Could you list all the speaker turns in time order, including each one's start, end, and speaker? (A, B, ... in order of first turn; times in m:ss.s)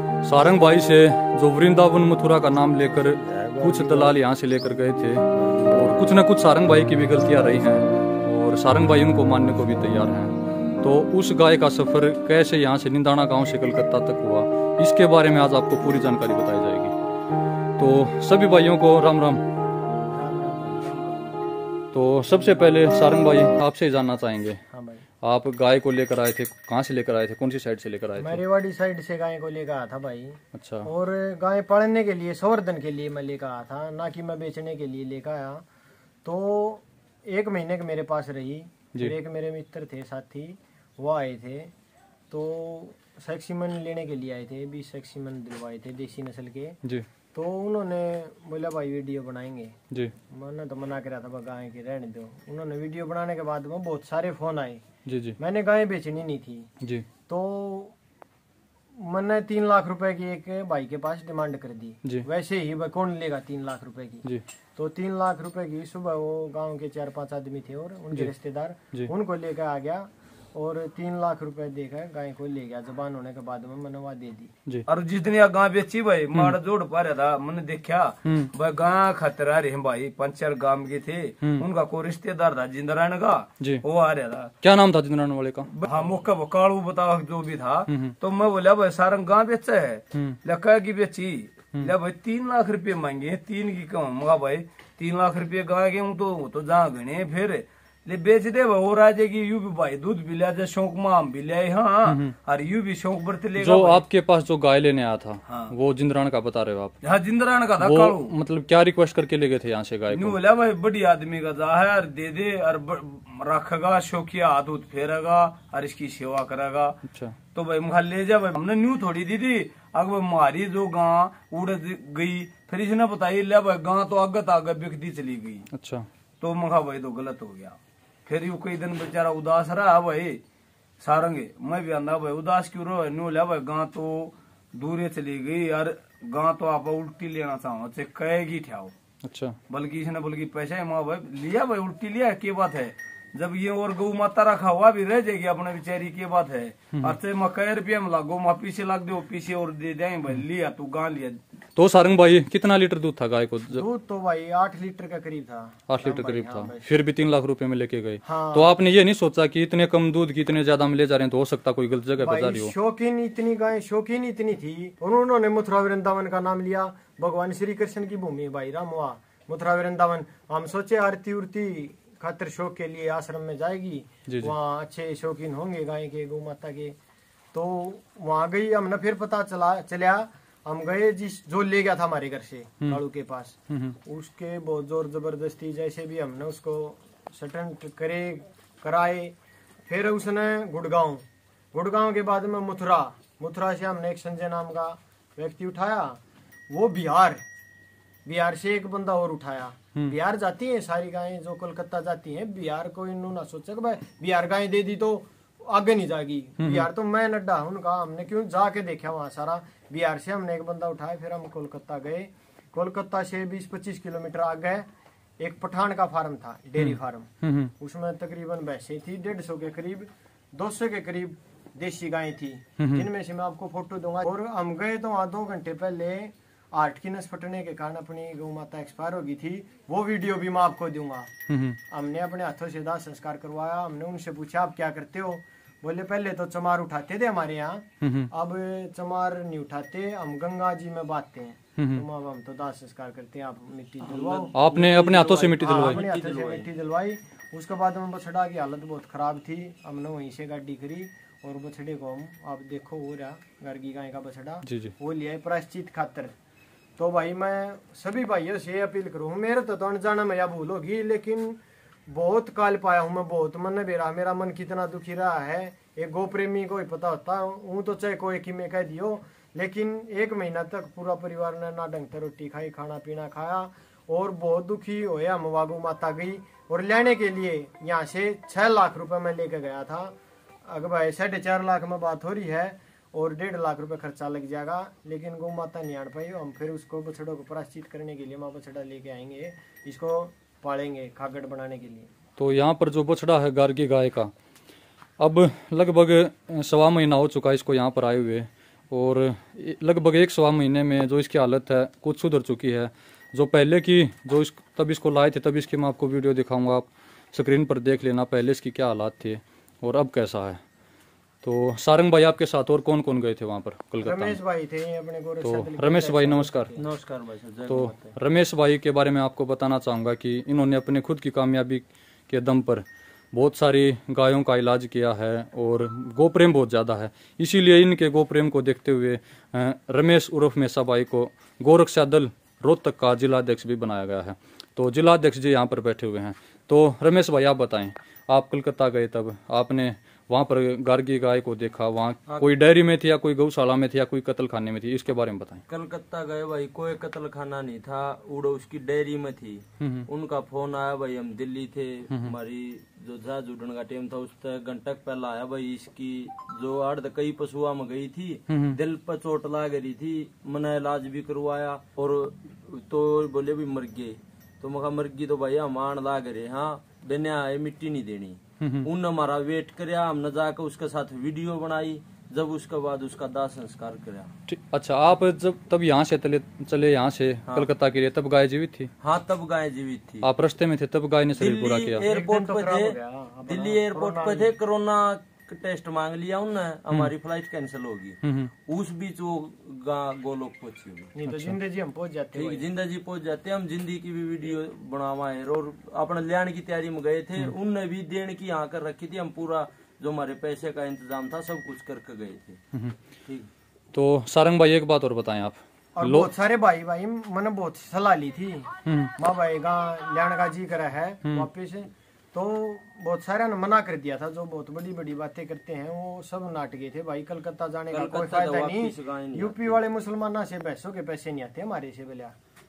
0:00.2-0:17.0 A
0:17.8-0:19.4 A
0:20.0-0:21.2 B
0:21.9-0:24.6 A
0:24.7-0:25.0 B
0:25.2-0:28.4 A
0:28.2-0:35.6 B
0:30.5-0:30.9 A
0:36.2-0:41.7 B
0:42.3-0:46.8 B
0:47.3-0:49.7 B
0:50.3-0:54.8 B
0:55.0-0:55.4 A
0:55.4-0:56.7 B
0:57.3-0:57.9 B
0:58.9-1:14.5 B
1:14.9-1:24.5 C
1:18.2-1:18.5 A
1:24.6-1:25.8 A
1:25.8-1:44.0 C
1:27.9-1:28.1 A
1:42.0-1:42.3 A
1:43.6-1:46.9 A
1:45.5-1:45.7 C
1:47.0-1:48.3 C
1:47.8-1:50.4 A
1:50.1-1:57.0 C
1:57.1-1:57.4 A
1:57.5-2:05.6 C
2:05.7-2:06.1 A
2:06.4-2:10.4 C
2:11.0-2:18.9 C
2:19.2-2:19.6 A
2:19.7-2:31.4 C
2:31.8-2:33.8 A
2:33.7-2:36.9 B
2:35.9-2:42.7 A
2:38.2-2:38.7 B
2:42.2-2:57.0 B
2:54.2-2:54.5 A
2:57.5-3:09.3 B
3:03.7-3:04.0 A
3:09.9-3:16.2 B
3:16.7-3:17.4 B
3:18.2-3:34.9 B
3:26.6-3:26.9 A
3:35.4-3:51.3 B
3:36.8-3:37.7 A
3:42.8-3:43.0 A
3:51.5-3:51.8 A
3:51.9-4:04.6 B
3:58.0-3:58.3 A
4:01.8-4:02.0 A
4:04.0-4:06.7 D
4:04.5-4:06.0 A
4:05.6-4:16.3 B
4:14.6-4:14.9 A
4:17.0-4:52.1 B
4:52.4-4:54.3 A
4:55.2-5:10.6 A
5:11.4-5:14.4 A
5:14.0-5:16.9 B
5:15.4-5:16.7 A
5:16.8-5:18.1 D
5:17.7-5:45.6 A
5:45.7-6:14.3 D
5:49.8-5:50.0 A
5:58.5-5:58.8 A
6:08.6-6:08.9 A
6:14.5-6:18.9 A
6:19.0-6:20.3 D
6:20.2-6:22.0 A
6:21.4-6:31.1 D
6:22.0-6:24.5 B
6:28.2-6:28.5 A
6:31.1-6:32.6 B
6:31.2-6:31.6 A
6:32.3-6:42.6 D
6:43.2-6:43.5 D
6:43.9-6:46.3 A
6:45.9-7:02.3 B
6:48.8-6:49.1 A
6:57.9-6:59.8 D